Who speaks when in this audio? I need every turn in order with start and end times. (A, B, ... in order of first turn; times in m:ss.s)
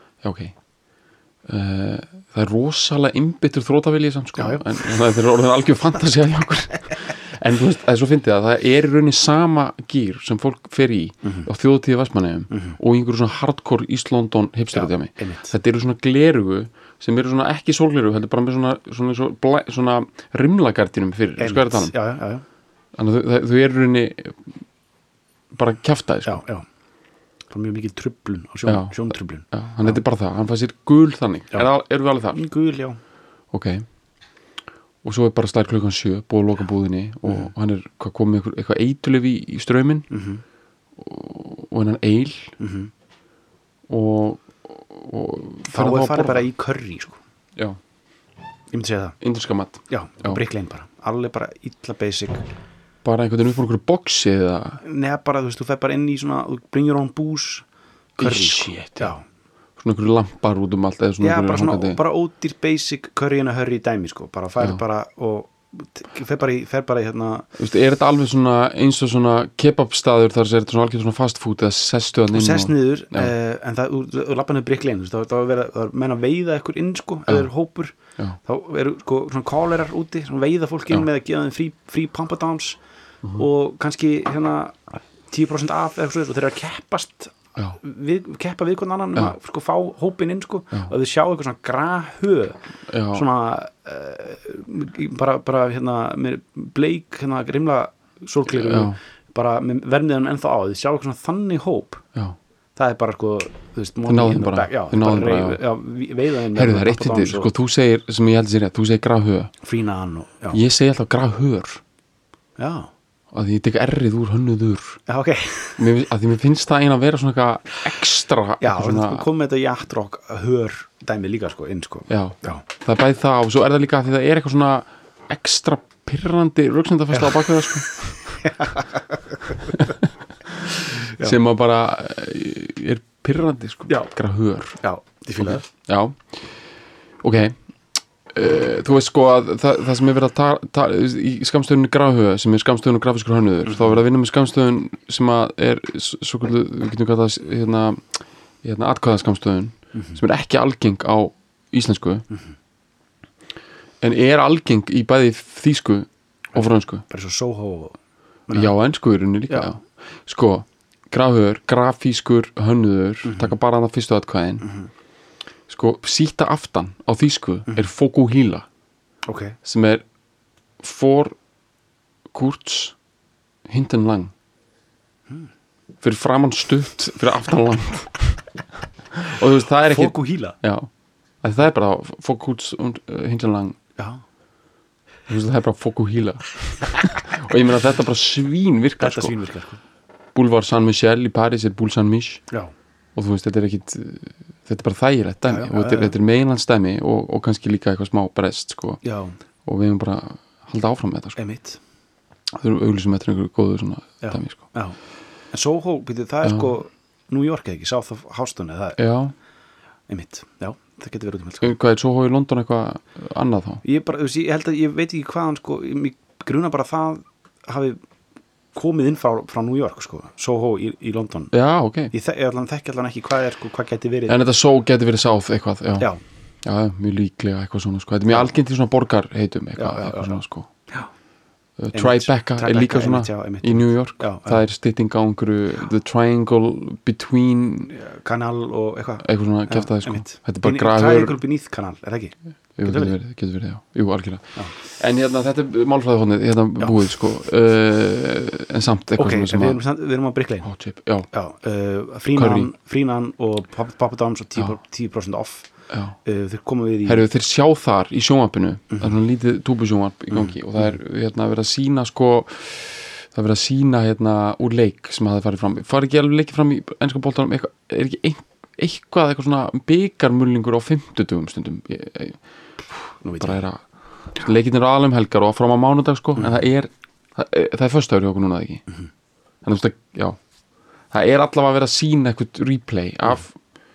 0:00.2-0:00.6 A
0:01.5-0:21.9 A
0:04.4-0:04.9 B
0:12.5-0:12.8 B
0:14.7-0:15.5 B
0:21.4-0:22.4 B
0:23.0-0:24.5 A
0:25.5-0:26.4 A
0:26.2-0:26.7 B
0:27.5-0:30.0 B
0:28.7-0:32.4 A
0:32.3-0:33.0 B
0:33.5-0:33.9 A
0:35.0-0:40.1 A
0:40.1-0:40.4 B
0:41.0-0:42.6 A
0:42.6-0:42.9 B
0:43.9-0:46.5 A
0:45.7-0:47.2 B
0:48.7-0:49.2 B
0:49.2-0:50.4 A
0:49.9-0:52.4 B
0:53.0-0:54.8 A
0:54.8-0:59.2 B
0:58.2-0:59.1 A
0:59.8-1:02.0 A
1:01.2-1:07.5 B
1:07.6-1:13.3 A
1:12.3-1:22.8 B
1:23.4-1:32.6 B
1:32.9-1:33.3 A
1:33.1-1:42.0 B
1:38.5-1:39.0 A
1:42.8-1:47.5 B
1:44.1-1:45.6 A
1:46.5-1:49.5 A
1:49.6-1:50.6 B
1:50.5-1:51.8 A
1:52.6-1:52.9 B
1:53.3-1:55.0 A
1:55.1-1:55.9 B
1:55.8-1:59.3 A
1:58.6-2:02.6 B
2:02.1-2:08.5 A
2:07.1-2:07.9 B
2:08.4-2:09.8 B
2:09.6-2:14.8 A
2:14.8-2:15.7 B
2:15.4-2:16.5 A
2:17.2-2:17.6 A
2:18.3-2:28.0 A
2:23.6-2:24.0 B
2:28.6-2:32.2 A
2:30.0-2:30.2 B
2:34.0-2:37.0 A
2:36.6-2:38.0 B
2:38.5-2:38.7 B
2:38.5-2:44.7 A
2:39.5-2:39.8 B
2:43.2-2:43.6 B
2:44.6-2:44.9 B
2:45.7-2:48.7 A
2:49.2-2:49.6 B
2:49.6-2:50.0 A
2:50.8-2:51.4 A
2:52.3-2:53.0 A
2:53.7-2:54.3 A
2:56.0-2:58.4 A
2:59.1-3:00.9 A
2:59.9-3:00.6 B
3:01.4-3:03.8 A
3:04.0-3:04.2 B
3:05.3-3:09.4 A
3:09.0-3:09.8 B
3:10.4-3:12.4 A
3:13.2-3:19.0 A
3:15.5-3:16.2 B
3:19.0-3:19.4 B
3:19.6-3:21.4 A
3:21.4-3:21.8 B
3:22.5-3:24.6 A
3:24.2-3:25.0 B
3:25.5-3:29.0 B
3:29.0-3:29.3 A
3:30.1-3:31.8 B
3:31.6-3:33.8 A
3:33.8-3:38.0 B
3:38.7-3:41.5 B
3:41.5-3:42.1 A
3:42.1-3:44.4 B
3:44.3-3:46.1 A
3:46.6-3:50.7 A
3:49.8-3:51.1 B
3:51.8-3:57.9 A
3:51.9-3:54.6 B
3:57.9-4:03.1 B
3:59.2-4:01.4 A
4:02.8-4:09.8 A
4:06.8-4:07.1 B
4:09.2-4:10.7 B
4:10.6-4:11.3 A
4:11.3-4:15.7 B
4:12.4-4:12.7 A
4:15.9-4:16.2 A
4:16.2-4:17.3 B
4:17.1-4:32.4 A
4:32.9-4:38.8 A
4:33.2-4:33.6 B
4:39.6-4:40.4 A
4:41.1-4:43.6 A